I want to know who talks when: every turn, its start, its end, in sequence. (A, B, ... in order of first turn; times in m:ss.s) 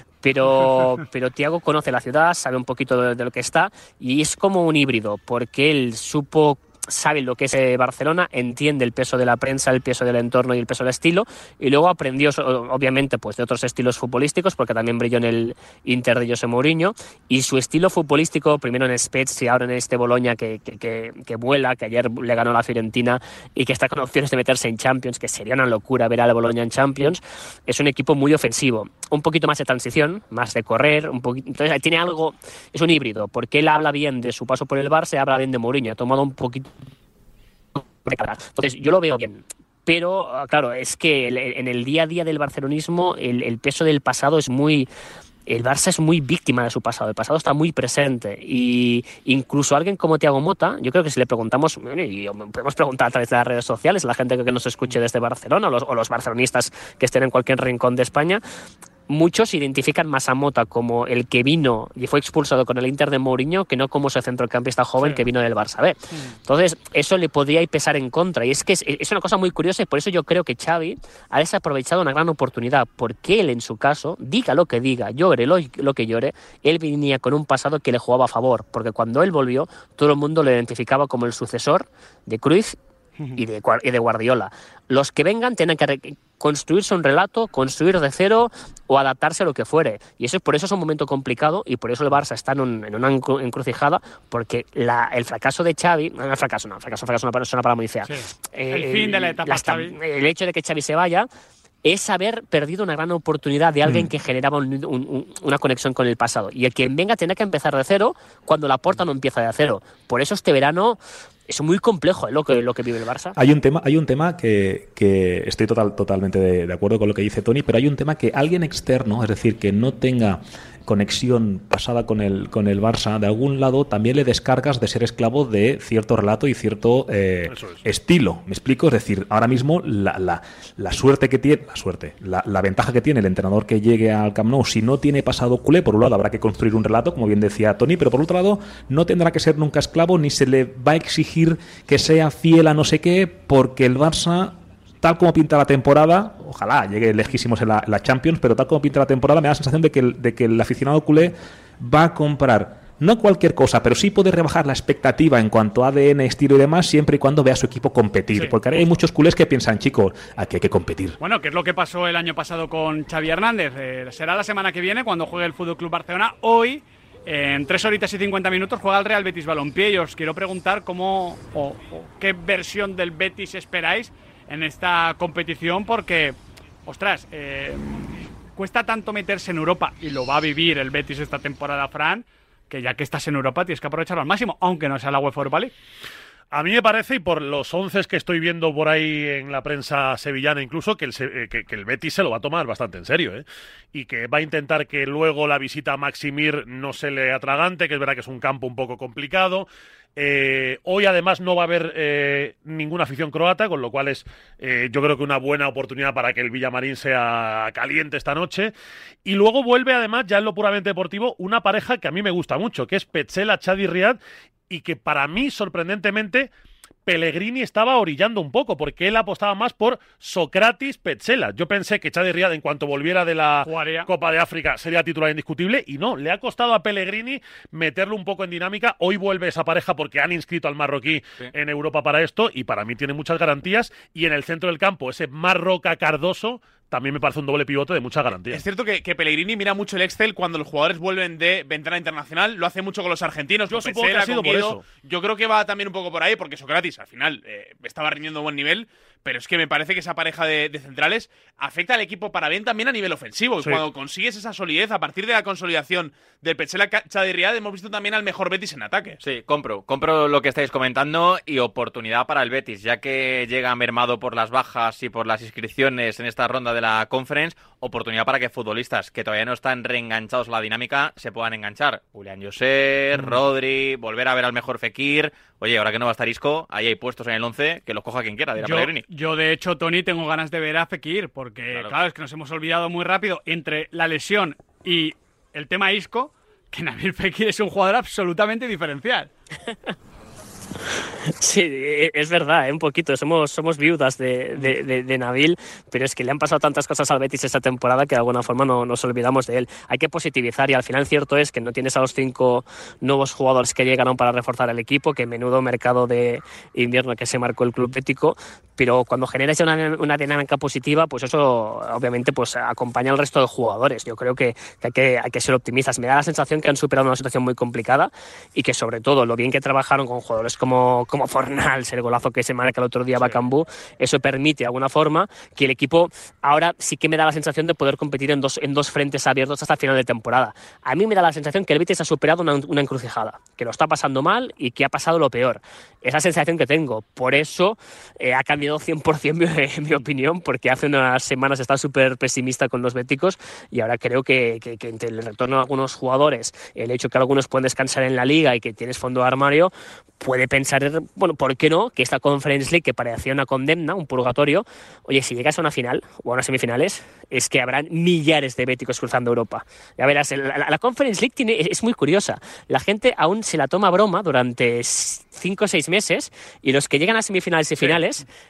0:00.2-0:36.7 A
0:37.8-0:44.9 A
0:45.5-0:58.4 A
0:59.1-1:22.8 A
1:05.0-1:05.2 B
1:23.4-1:41.3 A
1:38.0-1:39.9 B
1:41.8-1:53.4 A
1:53.3-2:41.2 C
2:07.5-2:07.8 D
2:41.2-3:05.7 B
3:06.5-3:28.7 D
3:29.2-3:36.5 D
3:37.0-3:58.6 D
3:43.6-3:44.1 B
3:58.5-4:19.2 E
4:03.7-4:04.8 D
4:19.2-4:39.0 F
4:33.1-4:33.4 B
4:38.6-4:49.3 B
4:51.4-6:08.2 A